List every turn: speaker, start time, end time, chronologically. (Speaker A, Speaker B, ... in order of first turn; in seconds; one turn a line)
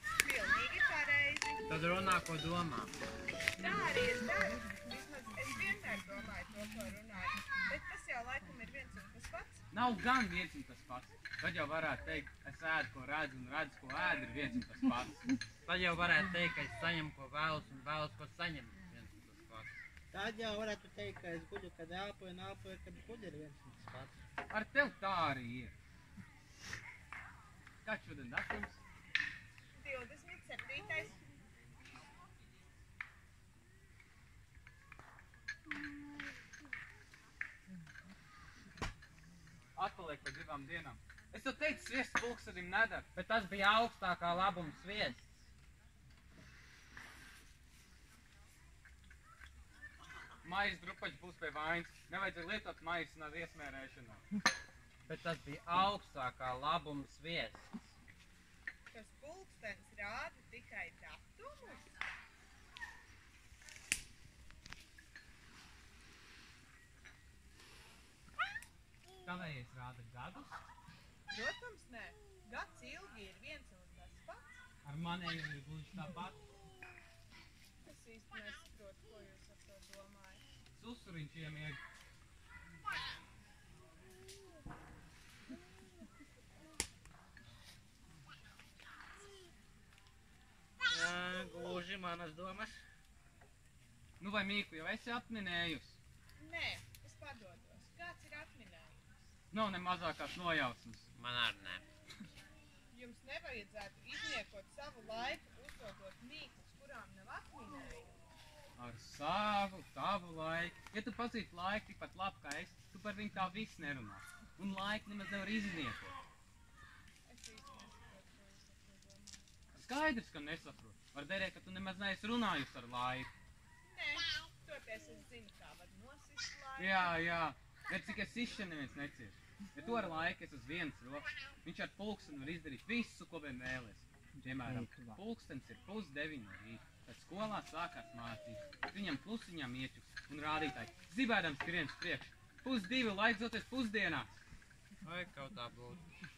Speaker A: 0.2-1.6
Speaker B: 1.7-2.9
Speaker A: 3.5-9.6
Speaker C: 9.7-15.2
Speaker B: 15.7-19.8
Speaker D: 20.1-24.2
Speaker C: 24.5-25.7
Speaker C: 27.8-28.8
Speaker A: 29.7-31.2
Speaker C: 39.8-43.1
Speaker B: 43.1-45.3
Speaker C: 50.4-54.2
Speaker B: 55.0-57.9
Speaker A: 58.9-62.0
Speaker C: 69.2-70.6
Speaker A: 71.3-74.6
Speaker C: 74.8-76.4
Speaker A: 77.8-80.4
Speaker C: 80.7-81.8
Speaker D: 90.8-92.8
Speaker C: 94.2-96.0
Speaker A: 96.4-99.3
Speaker C: 99.5-101.1
Speaker B: 101.1-101.8
Speaker A: 102.9-108.2
Speaker C: 108.8-116.1
Speaker A: 117.2-119.5
Speaker C: 119.7-123.3
Speaker A: 123.8-127.2
Speaker C: 126.8-144.4
Speaker B: 145.0-146.0